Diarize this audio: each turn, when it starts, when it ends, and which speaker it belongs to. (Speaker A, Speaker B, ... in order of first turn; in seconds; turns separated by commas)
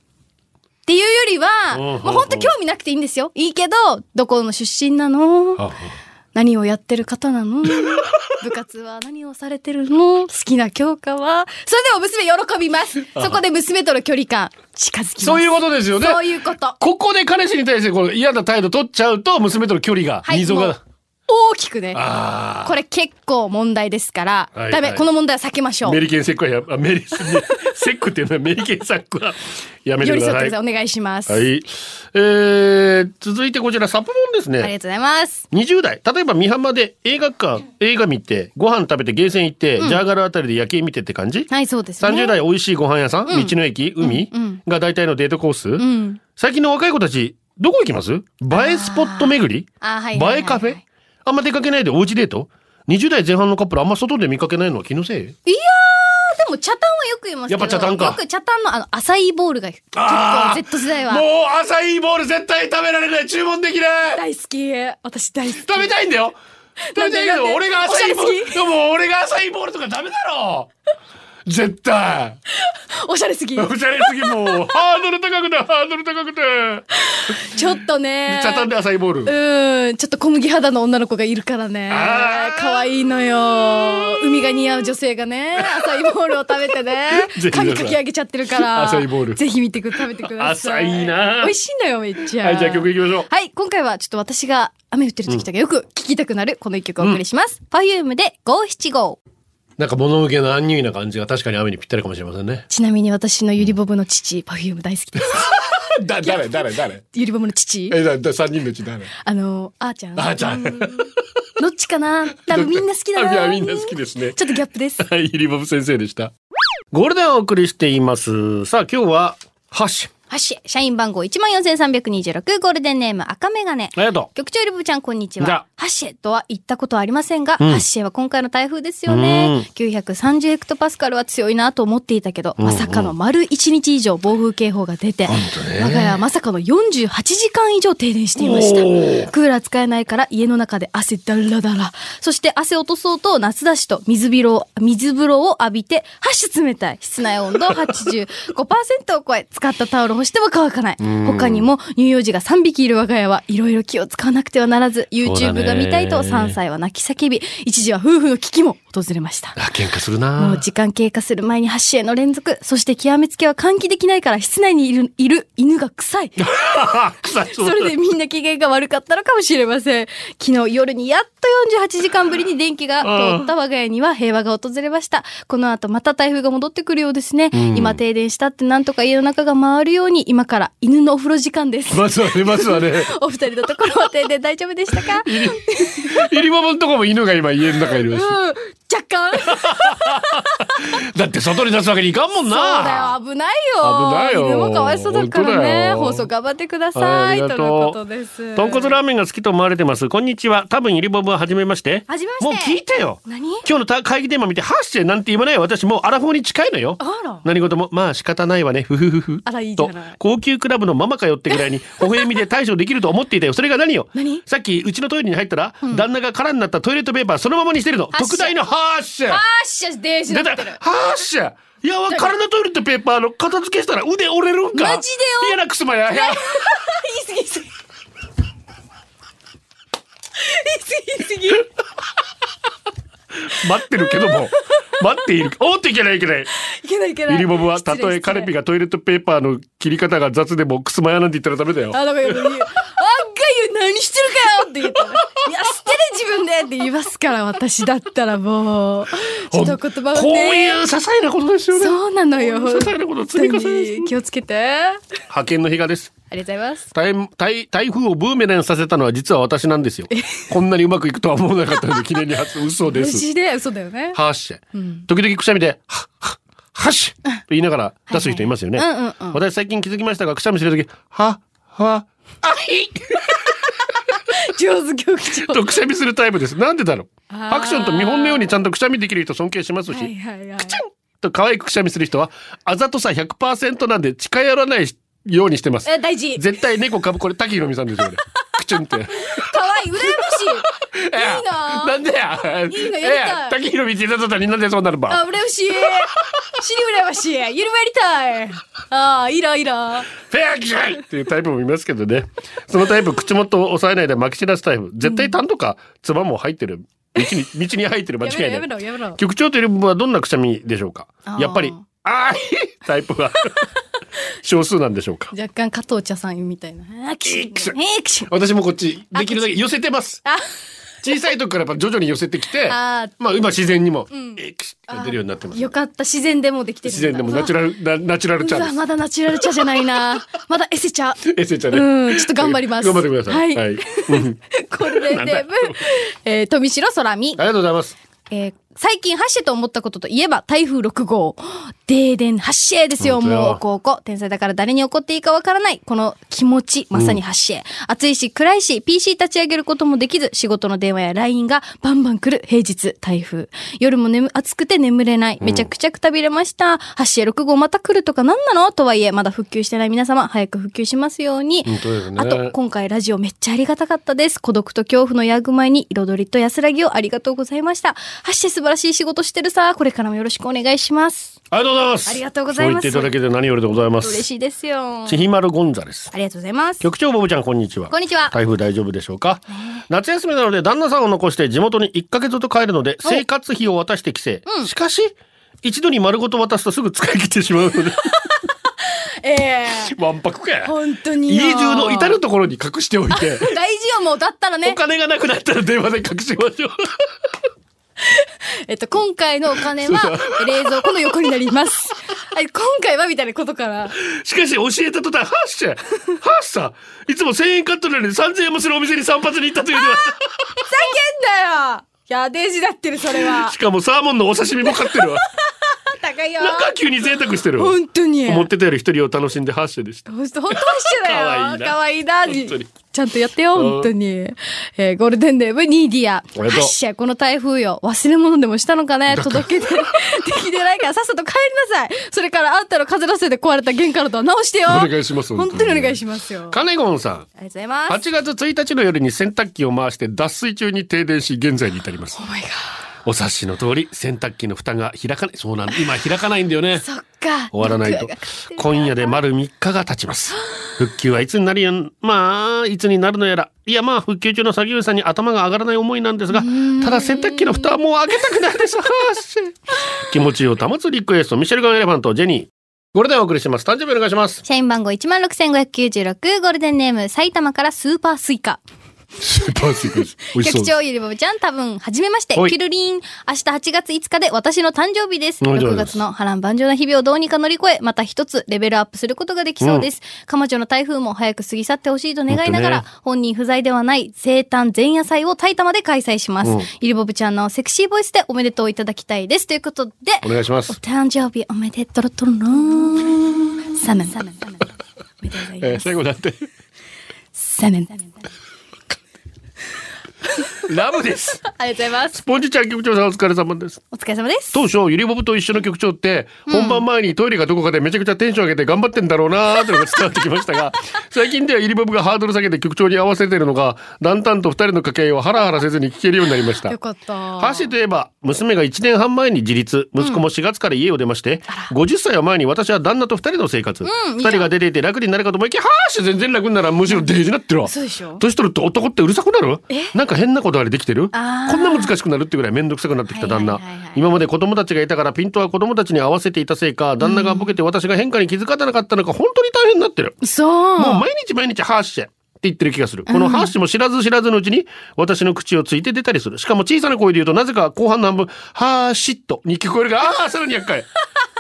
Speaker A: 0.9-5.7, Speaker B: 1.7-2.5, Speaker B: 5.6-6.0, Speaker A: 6.3-16.8, Speaker B: 7.8-8.2, Speaker B: 15.2-16.2, Speaker B: 16.8-20.8, Speaker A: 20.2-20.8, Speaker A: 21.3-22.1, Speaker B: 21.9-22.8, Speaker A: 22.6-26.0, Speaker B: 24.6-25.0, Speaker B: 25.9-30.6, Speaker A: 30.0-31.4, Speaker B: 31.3-34.7, Speaker A: 34.6-35.5, Speaker B: 35.5-55.4, Speaker A: 41.5-42.4, Speaker A: 43.3-44.6, Speaker A: 45.8-46.2, Speaker A: 48.5-50.8, Speaker A: 55.5-61.2, Speaker B: 57.5-58.2, Speaker B: 59.9-64.2, Speaker A: 64.1-65.9, Speaker B: 65.5-66.4, Speaker A: 66.9-68.6, Speaker B: 67.0-70.7, Speaker B: 71.5-72.4, Speaker A: 72.6-74.6, Speaker B: 73.6-77.7, Speaker A: 77.0-78.7, Speaker B: 78.3-79.3, Speaker A: 79.2-99.2, Speaker B: 81.9-82.8, Speaker B: 85.6-85.8, Speaker B: 87.1-89.4, Speaker B: 90.2-91.5, Speaker B: 92.4-93.3, Speaker B: 99.8-102.7, Speaker A: 102.7-105.5, Speaker B: 105.2-107.0, Speaker A: 106.2-106.5, Speaker A: 107.1-108.0, Speaker B: 107.9-109.1, Speaker A: 109.2-115.0, Speaker B: 110.2-111.1, Speaker B: 112.5-114.4, Speaker B: 115.0-116.3, Speaker B: 116.9-120.1, Speaker A: 120.3-159.6, Speaker B: 124.0-124.3, Speaker B: 127.6-127.8, Speaker B: 129.1-129.7, Speaker B: 132.6-133.1, Speaker B: 135.3-136.2, Speaker B: 138.4-139.3, Speaker B: 151.0-151.7, Speaker B: 155.2-156.6, Speaker B: 159.6-160.6, Speaker A: 160.4-166.5, Speaker B: 166.4-167.9, Speaker A: 167.5-186.2, Speaker B: 173.0-173.5, Speaker B: 177.5-178.0, Speaker B: 181.9-183.1, Speaker B: 185.0-188.4, Speaker A: 188.1-190.7, Speaker B: 189.4-193.2, Speaker A: 192.4-199.0, Speaker B: 193.8-196.3, Speaker B: 196.9-198.0, Speaker B: 198.6-219.4, Speaker A: 202.1-203.6, Speaker A: 207.0-207.4, Speaker A: 209.4-210.2, Speaker A: 214.2-214.4, Speaker A: 218.1-218.6, Speaker A: 219.3-220.8, Speaker B: 220.3-226.8, Speaker A: 222.1-222.3, Speaker A: 224.7-227.7, Speaker A: 230.4-231.7, Speaker B: 233.4-236.5, Speaker A: 236.6-238.5, Speaker B: 237.3-242.4, Speaker A: 241.9-250.8, Speaker B: 249.5-254.1, Speaker A: 251.7-255.0, Speaker B: 255.3-256.1, Speaker A: 256.3-256.9, Speaker B: 256.9-263.3, Speaker A: 260.1-260.5, Speaker A: 262.9-264.2, Speaker B: 264.1-273.5, Speaker A: 264.7-265.0, Speaker A: 268.1-269.4, Speaker A: 274.2-275.6, Speaker B: 275.4-280.1, Speaker A: 277.3-278.5, Speaker A: 279.9-280.8, Speaker B: 280.6-295.2, Speaker A: 285.9-286.5, Speaker A: 289.2-292.0, Speaker A: 292.7-293.6, Speaker A: 295.1-300.1, Speaker B: 300.1-313.7, Speaker A: 305.0-305.3, Speaker A: 308.2-309.2, Speaker A: 311.3-311.9, Speaker B: 314.4-315.3, Speaker A: 315.3-318.3, Speaker B: 317.2-317.8, Speaker B: 318.3-320.2, Speaker A: 319.1-319.5, Speaker B: 321.0-325.7, Speaker A: 322.7-323.1, Speaker A: 324.1-324.4, Speaker A: 324.9-327.6, Speaker B: 326.8-328.8, Speaker A: 328.4-337.4, Speaker B: 329.3-330.2, Speaker B: 331.2-335.8, Speaker B: 337.4-338.0, Speaker A: 338.3-371.4, Speaker B: 343.0-343.6, Speaker B: 346.9-347.2, Speaker B: 355.4-355.7, Speaker B: 361.6-362.6, Speaker B: 371.5-374.3, Speaker A: 372.1-373.1, Speaker A: 374.0-375.2, Speaker B: 375.1-376.1, Speaker A: 376.1-376.9, Speaker B: 376.8-388.1, Speaker A: 377.9-378.3, Speaker A: 384.5-384.7, Speaker A: 388.8-389.9, Speaker B: 389.8-390.8, Speaker A: 390.6-392.2, Speaker B: 391.3-393.5, Speaker A: 393.1-394.8, Speaker B: 394.6-397.1, Speaker A: 398.1-404.0, Speaker B: 399.6-401.3, Speaker B: 404.0-410.6, Speaker A: 410.6-413.6, Speaker B: 413.1-415.2, Speaker A: 415.7-416.8, Speaker B: 416.4-422.7, Speaker A: 417.6-418.5, Speaker A: 420.1-436.6, Speaker B: 423.6-423.9, Speaker B: 426.4-426.7, Speaker B: 429.1-430.0, Speaker B: 434.7-437.3, Speaker A: 437.4-438.0, Speaker B: 437.9-442.2, Speaker A: 442.1-442.8, Speaker B: 443.1-446.9, Speaker A: 446.8-449.1, Speaker B: 447.5-464.4, Speaker A: 456.3-457.7, Speaker A: 464.4-468.6, Speaker B: 469.2-470.7, Speaker A: 469.8-494.7, Speaker B: 475.4-476.0, Speaker B: 482.3-482.8, Speaker B: 490.2-490.8, Speaker A: 495.2-495.8, Speaker B: 495.6-496.5, Speaker A: 497.4-498.2, Speaker B: 500.6-501.4, Speaker A: 501.5-502.2, Speaker B: 502.1-503.8, Speaker A: 503.9-504.7, Speaker B: 504.5-516.8, Speaker A: 506.5-506.8, Speaker A: 516.7-517.7, Speaker B: 517.4-540.2, Speaker A: 523.8-524.5, Speaker A: 527.6-528.2, Speaker A: 531.1-531.9, Speaker A: 533.1-534.0, Speaker A: 537.0-537.5, Speaker A: 540.2-541.0, Speaker B: 540.7-550.9, Speaker A: 543.1-543.5